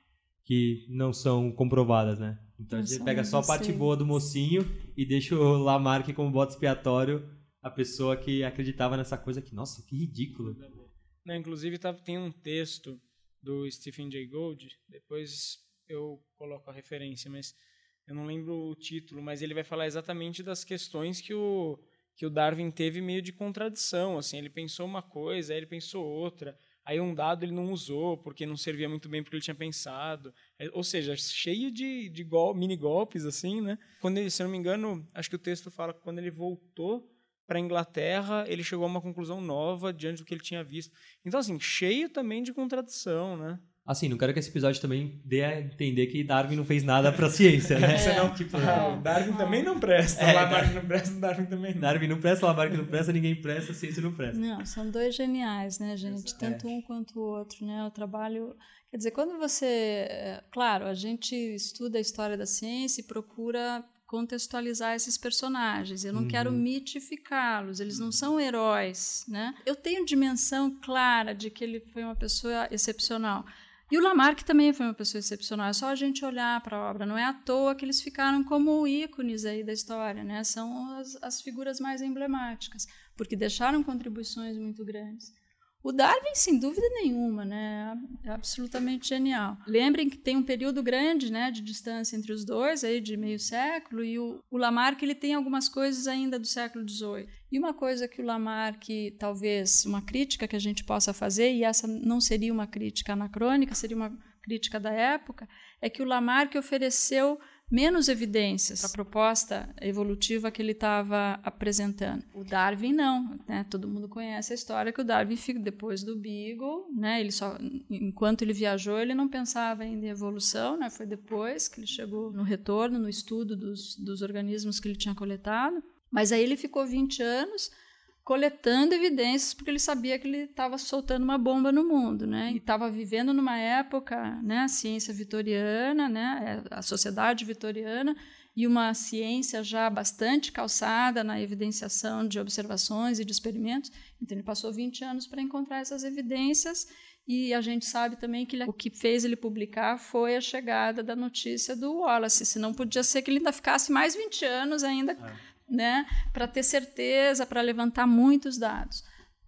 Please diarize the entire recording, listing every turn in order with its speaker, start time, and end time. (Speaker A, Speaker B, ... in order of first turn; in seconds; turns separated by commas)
Speaker A: 0.5-10.6, Speaker B: 2.7-3.9, Speaker C: 10.4-43.6, Speaker A: 43.9-49.0, Speaker C: 47.7-52.0, Speaker B: 47.9-49.7, Speaker A: 50.1-50.8, Speaker A: 51.8-54.4, Speaker B: 54.3-127.7, Speaker A: 56.1-56.7, Speaker A: 66.1-66.7, Speaker B: 128.2-159.1